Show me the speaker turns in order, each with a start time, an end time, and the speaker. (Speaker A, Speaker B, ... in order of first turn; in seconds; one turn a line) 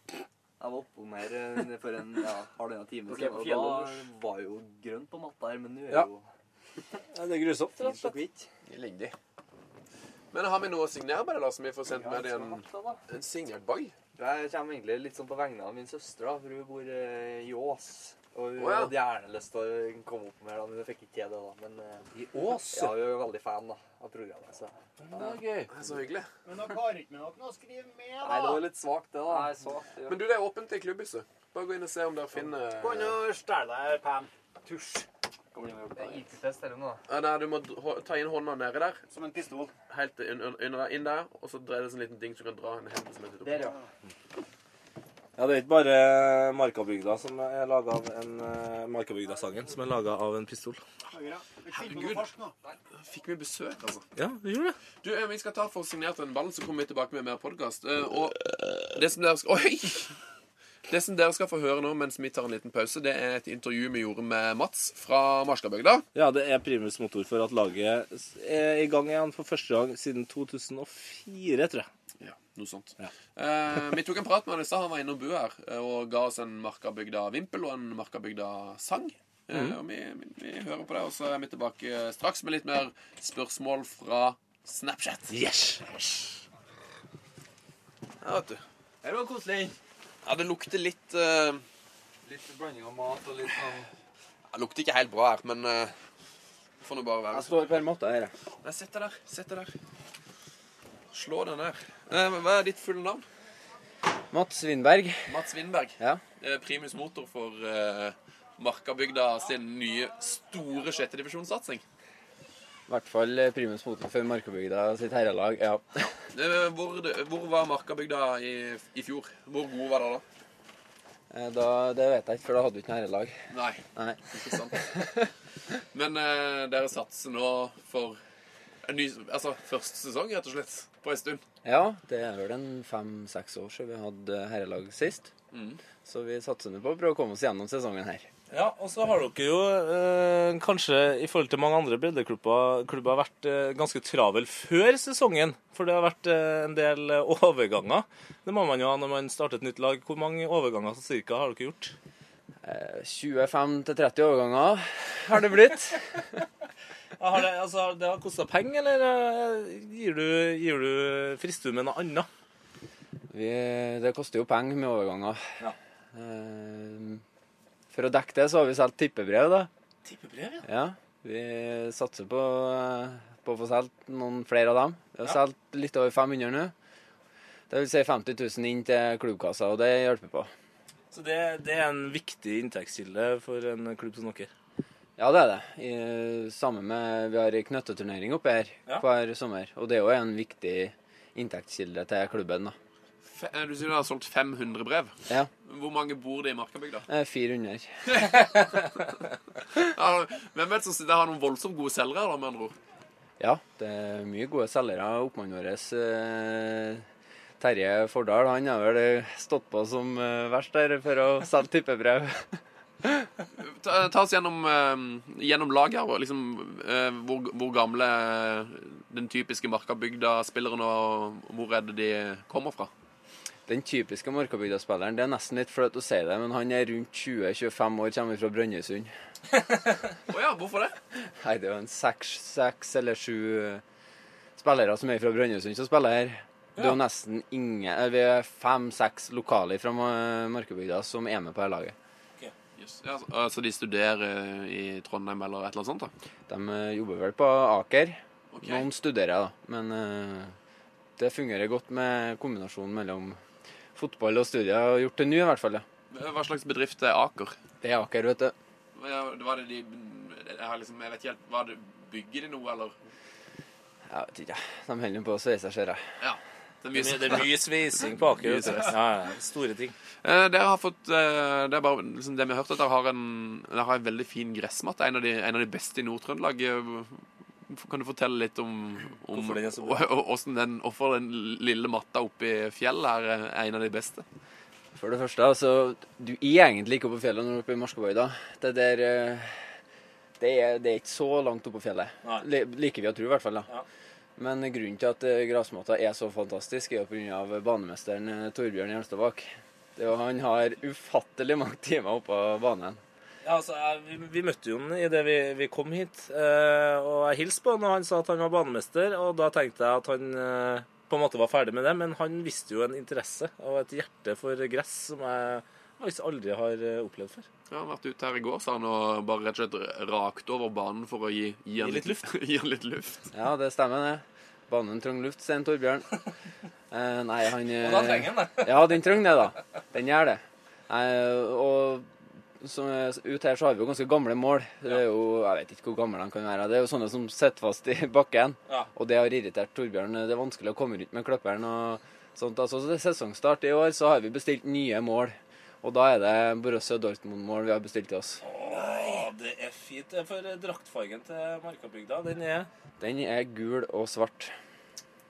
Speaker A: 0.6-6.2
Speaker B: 3.1-4.0
Speaker C: 7.1-8.2
Speaker A: 7.8-8.5
Speaker D: 8.7-9.2
Speaker D: 10.3-13.9
Speaker A: 11.9-12.6
Speaker B: 12.5-13.0
Speaker A: 14.2-22.1
Speaker D: 18.6-19.0
Speaker C: 22.1-23.0
Speaker A: 22.7-24.7
Speaker C: 25.0-25.7
Speaker D: 25.7-26.3
Speaker E: 26.4-28.6
Speaker A: 28.2-29.6
Speaker B: 29.2-30.2
Speaker D: 30.1-33.2
Speaker E: 32.8-35.1
Speaker B: 35.5-36.3
Speaker A: 36.0-37.0
Speaker D: 37.1-39.0
Speaker E: 39.1-39.7
Speaker D: 39.9-43.7
Speaker A: 43.4-43.8
Speaker C: 45.4-50.8
Speaker E: 51.1-52.6
Speaker D: 51.7-52.2
Speaker D: 53.0-54.0
Speaker C: 54.2-54.8
Speaker D: 55.0-60.1
Speaker D: 60.9-66.1
Speaker C: 66.2-71.9
Speaker D: 72.2-85.3
Speaker C: 79.5-79.8
Speaker C: 85.3-86.4
Speaker D: 88.2-88.6
Speaker A: 89.0-89.7
Speaker D: 90.2-91.6
Speaker A: 92.2-93.9
Speaker D: 94.5-95.9
Speaker D: 96.8-97.6
Speaker F: 97.3-98.3
Speaker D: 98.6-99.7
Speaker D: 101.1-103.2
Speaker F: 104.3-105.3
Speaker D: 105.3-111.8
Speaker F: 112.9-116.1
Speaker D: 116.3-120.2
Speaker F: 121.3-123.4
Speaker D: 123.5-125.0
Speaker F: 124.0-125.0
Speaker D: 125.9-128.2
Speaker D: 128.8-131.4
Speaker F: 131.6-135.3
Speaker D: 135.5-135.8
Speaker F: 136.1-138.3
Speaker C: 138.5-151.9
Speaker F: 152.6-156.2
Speaker C: 157.2-162.3
Speaker F: 163.3-165.4
Speaker F: 166.1-167.2
Speaker F: 167.9-169.7
Speaker C: 170.1-170.7
Speaker F: 170.7-176.7
Speaker F: 177.7-180.5
Speaker C: 181.1-184.5
Speaker F: 185.2-192.8
Speaker D: 193.2-197.1
Speaker F: 197.1-198.0
Speaker D: 198.1-198.5
Speaker D: 199.7-202.8
Speaker F: 203.4-207.1
Speaker F: 207.6-213.3
Speaker D: 213.6-222.9
Speaker F: 223.7-229.1
Speaker D: 230.3-231.0
Speaker F: 231.4-233.8
Speaker F: 234.6-241.9
Speaker C: 236.8-237.0
Speaker D: 242.8-246.1
Speaker F: 246.5-250.6
Speaker D: 248.5-248.9
Speaker F: 251.2-253.4
Speaker F: 253.9-255.8
Speaker D: 256.1-257.6
Speaker F: 257.8-258.5
Speaker D: 258.9-262.9
Speaker F: 264.1-266.0
Speaker D: 266.2-269.0
Speaker C: 266.9-269.9
Speaker D: 270.2-284.2
Speaker C: 279.3-280.1
Speaker F: 284.9-289.7
Speaker F: 290.4-293.7
Speaker F: 294.4-303.0
Speaker C: 303.4-317.5
Speaker D: 317.7-323.3
Speaker C: 321.8-322.3
Speaker F: 323.3-326.1
Speaker F: 326.9-332.1
Speaker C: 327.8-329.0
Speaker F: 332.6-348.4
Speaker C: 348.4-352.7
Speaker F: 353.0-354.5